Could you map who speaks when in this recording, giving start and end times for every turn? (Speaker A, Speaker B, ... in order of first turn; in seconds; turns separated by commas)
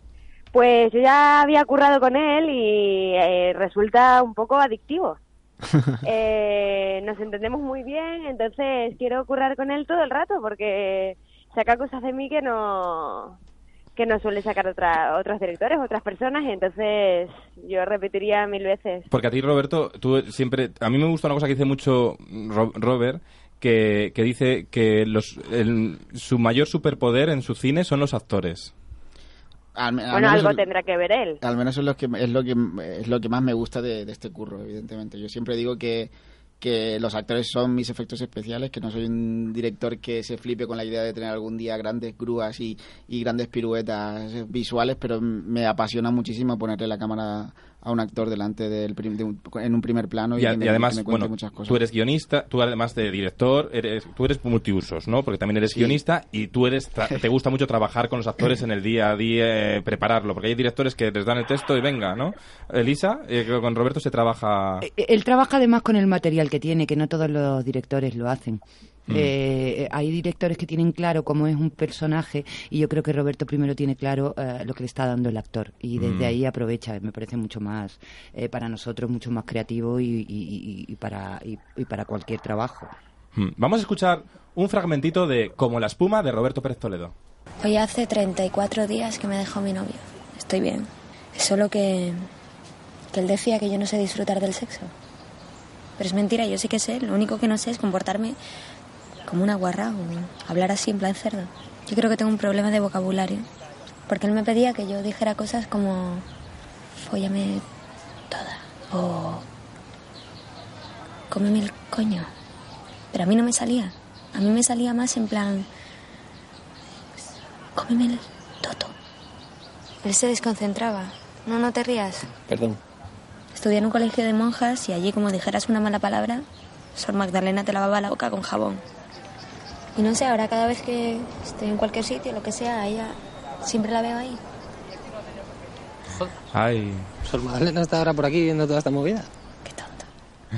Speaker A: 0.5-5.2, Speaker A: 6.0-13.3, Speaker A: 13.9-19.1, Speaker B: 19.1-28.7, Speaker C: 29.7-30.6, Speaker A: 30.1-31.4, Speaker C: 31.4-51.8, Speaker B: 50.4-64.8, Speaker C: 55.7-56.0, Speaker D: 64.8-82.9, Speaker B: 76.0-76.3, Speaker B: 83.3-87.1, Speaker E: 87.6-92.3, Speaker E: 93.1-94.9, Speaker E: 96.0-98.4, Speaker E: 99.3-103.5, Speaker E: 104.1-106.2, Speaker E: 107.0-107.6, Speaker E: 108.3-109.5, Speaker E: 111.3-112.3, Speaker E: 113.1-115.7, Speaker E: 117.8-118.9, Speaker E: 120.0-122.3, Speaker F: 122.5-122.8, Speaker E: 123.5-128.8, Speaker E: 129.9-134.4, Speaker B: 136.5-137.1, Speaker F: 137.2-139.3, Speaker E: 139.6-140.1